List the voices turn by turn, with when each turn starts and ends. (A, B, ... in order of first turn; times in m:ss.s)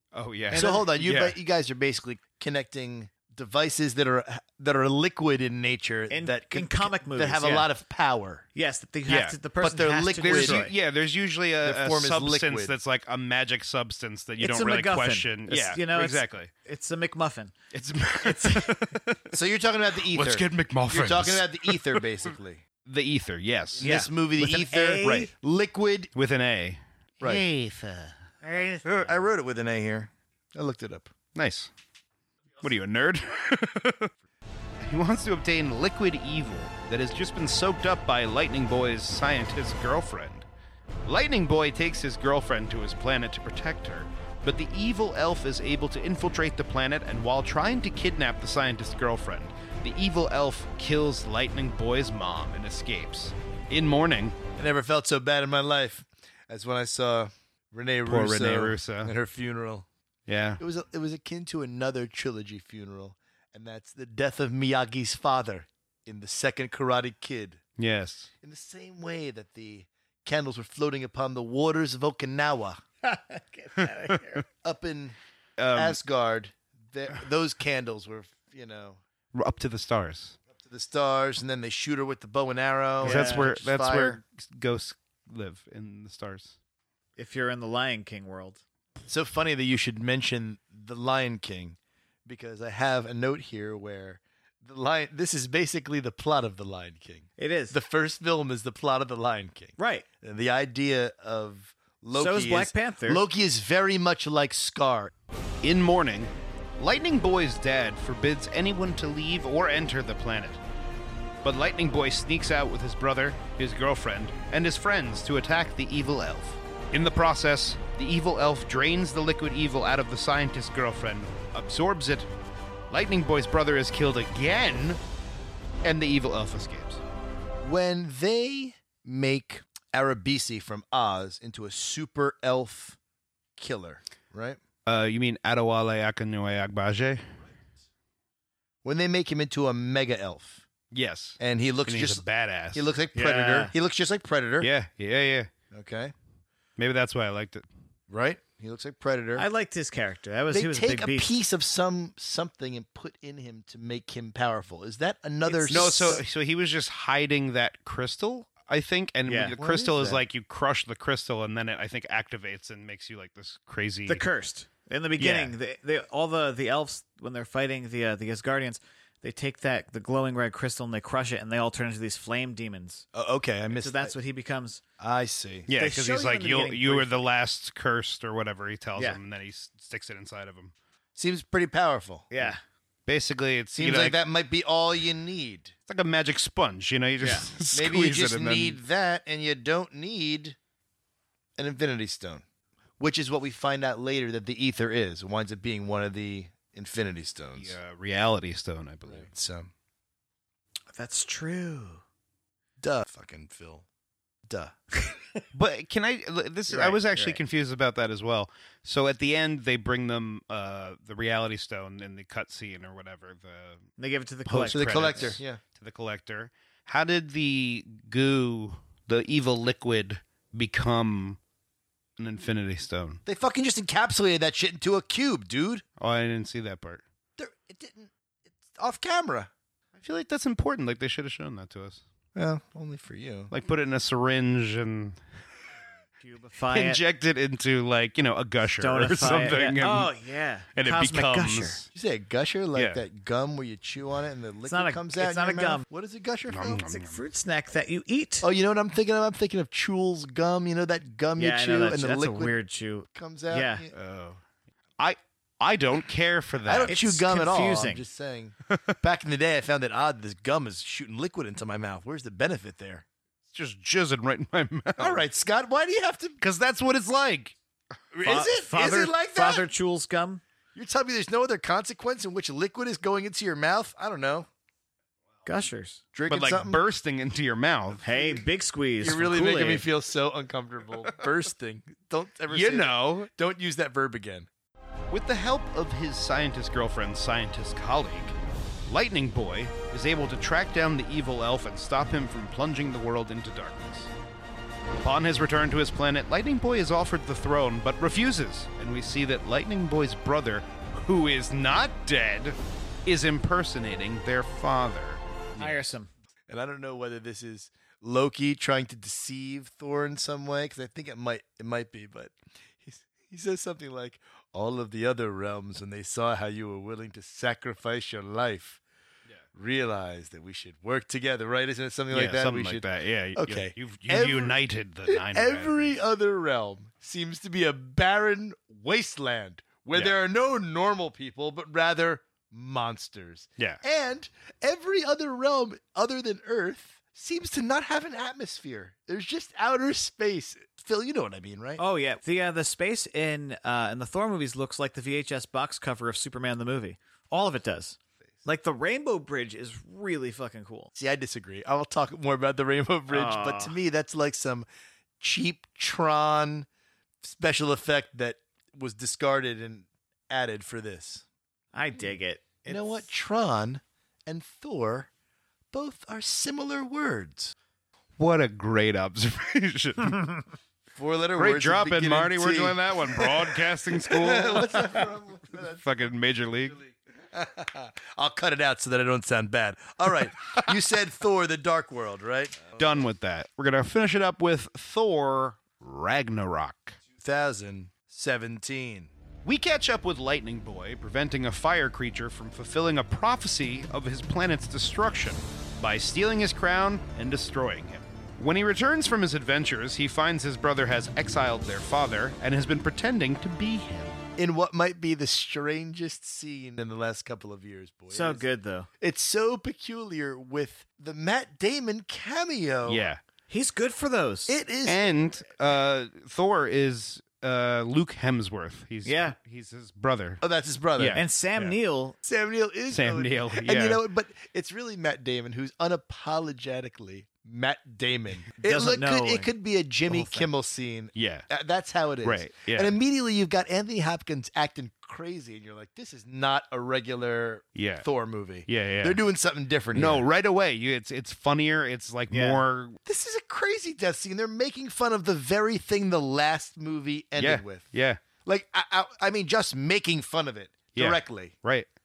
0:00.1-0:01.4 A
0:00.5-0:08.5 B
0:06.1-0:07.7 C
0:08.6-0:10.7 C
0:09.1-0:09.4 A
0:09.6-0:10.6 B
0:10.2-0:16.5 A
0:11.6-0:12.7 B
0:14.4-0:17.5 C
0:17.7-0:19.3 A
0:18.2-0:18.8 C
0:19.3-0:22.6 B
0:20.0-0:22.1 A
0:22.9-0:24.1 A
0:23.8-0:26.1 B
0:23.8-0:25.3 C
0:26.2-0:28.2 A
0:28.4-0:29.0 C
0:29.0-0:31.1 B
0:31.4-0:31.7 A
0:32.6-0:34.1 A
0:34.8-0:40.5 A
0:41.1-0:54.4 A
0:54.6-0:59.9 B
0:58.1-0:59.1 A
1:00.3-1:00.6 A
1:00.6-1:07.6 B
1:07.8-1:08.3 A
1:08.4-1:12.8 B
1:13.0-1:14.4 C
1:13.8-1:14.2 A
1:14.6-1:15.2 B
1:15.6-1:16.0 A
1:15.7-1:19.0 B
1:19.3-1:20.4 A
1:20.6-1:24.2 B
1:23.0-1:23.5 C
1:23.0-1:26.6 A
1:27.2-1:28.6 C
1:29.1-1:45.1 B
1:37.4-1:37.8 C
1:39.8-1:40.0 C
1:42.2-1:43.2 C
1:45.6-1:50.6 A
1:51.4-2:02.3 A
2:02.9-2:05.0 A
2:05.8-2:07.0 A
2:07.6-2:13.0 B
2:13.6-2:14.6 B
2:14.9-2:17.3 A
2:18.8-2:20.7 B
2:20.9-2:22.9 A
2:21.4-2:24.7 B
2:23.2-2:23.7 C
2:24.6-2:25.5 A
2:25.7-2:26.1 B
2:26.8-2:27.6 A
2:28.1-2:29.5 B
2:29.4-2:31.4 C
2:30.5-2:36.2 B
2:35.5-2:36.2 C
2:35.7-2:44.2 A
2:39.3-2:39.6 C
2:39.6-2:40.2 B
2:44.1-2:53.0 C
2:45.2-2:45.5 A
2:53.1-2:54.1 B
2:53.7-2:54.8 C
2:55.0-2:55.7 B
2:55.7-3:00.7 A
2:55.8-2:57.1 C
3:01.2-3:02.3 B
3:02.3-3:02.6 C
3:03.1-3:04.2 A
3:03.8-3:05.7 B
3:05.9-3:08.8 A
3:07.2-3:07.5 C
3:07.7-3:10.6 B
3:11.6-3:12.4 B
3:13.0-3:17.8 B
3:17.6-3:19.3 A
3:19.1-3:19.7 B
3:20.9-3:22.0 C
3:22.8-3:23.9 B
3:24.5-3:24.7 B
3:25.5-3:33.9 A
3:26.7-3:27.4 C
3:34.0-3:35.4 C
3:34.5-3:41.4 A
3:34.7-3:35.6 B
3:42.2-3:43.2 A
3:43.3-3:45.8 B
3:46.0-3:47.0 A
3:47.4-3:49.5 B
3:50.0-3:52.0 A
3:52.4-3:53.5 B
3:53.5-3:55.2 A
3:56.2-3:57.0 C
3:56.7-4:00.1 A
3:58.8-4:01.8 C
4:00.8-4:01.9 A
4:01.9-4:06.8 B
4:02.8-4:03.0 A
4:04.7-4:05.8 C
4:06.5-4:07.2 A
4:06.9-4:08.5 C
4:08.4-4:12.6 B
4:11.4-4:13.9 C
4:13.1-4:13.9 B
4:13.9-4:14.4 A
4:15.0-4:16.9 A
4:16.7-4:23.0 B
4:16.9-4:18.0 C
4:23.5-4:25.2 A
4:25.0-4:26.4 B
4:26.4-4:27.6 A
4:28.1-4:29.7 B
4:28.2-4:30.4 C
4:30.8-4:34.5 B
4:35.5-4:36.0 C
4:36.1-4:36.8 B
4:36.3-4:38.0 A
4:38.0-4:39.8 C
4:39.0-4:44.5 B
4:42.5-4:43.3 A
4:45.1-4:48.3 A
4:48.9-4:54.1 A
4:55.0-5:05.9 A
5:05.6-5:06.1 C
5:06.5-5:18.8 B
5:19.5-5:24.6 B
5:22.1-5:26.0 A
5:25.1-5:41.8 B
5:41.8-5:50.9 C
5:51.0-5:54.7 B
5:53.1-5:53.8 C
5:55.2-5:56.7 B
5:57.2-6:01.2 B
6:01.7-6:03.1 C
6:02.7-6:05.1 B
6:05.7-6:07.5 B
6:08.2-6:10.4 A
6:11.0-6:15.9 B
6:11.4-6:16.8 A
6:16.7-6:22.7 B
6:22.8-6:27.0 A
6:27.1-6:29.1 B
6:29.4-6:44.2 A
6:44.4-6:48.4 B
6:48.1-6:48.9 C
6:49.0-6:53.0 B
6:52.8-6:53.2 A
6:53.5-6:54.6 C
6:54.5-6:55.2 B
6:54.9-7:00.4 A
6:59.0-6:59.4 C
7:00.4-7:01.2 B
7:01.0-7:01.8 A
7:01.1-7:02.2 C
7:02.2-7:20.2 B
7:02.9-7:04.0 A
7:08.6-7:09.5 C
7:10.1-7:10.5 C
7:11.2-7:11.5 A
7:12.2-7:12.9 A
7:17.8-7:18.1 A
7:18.7-7:19.2 A
7:19.9-7:23.0 A
7:22.3-7:22.6 C
7:23.0-7:27.9 B
7:27.4-7:28.2 A
7:28.4-7:31.6 B
7:30.9-7:31.9 A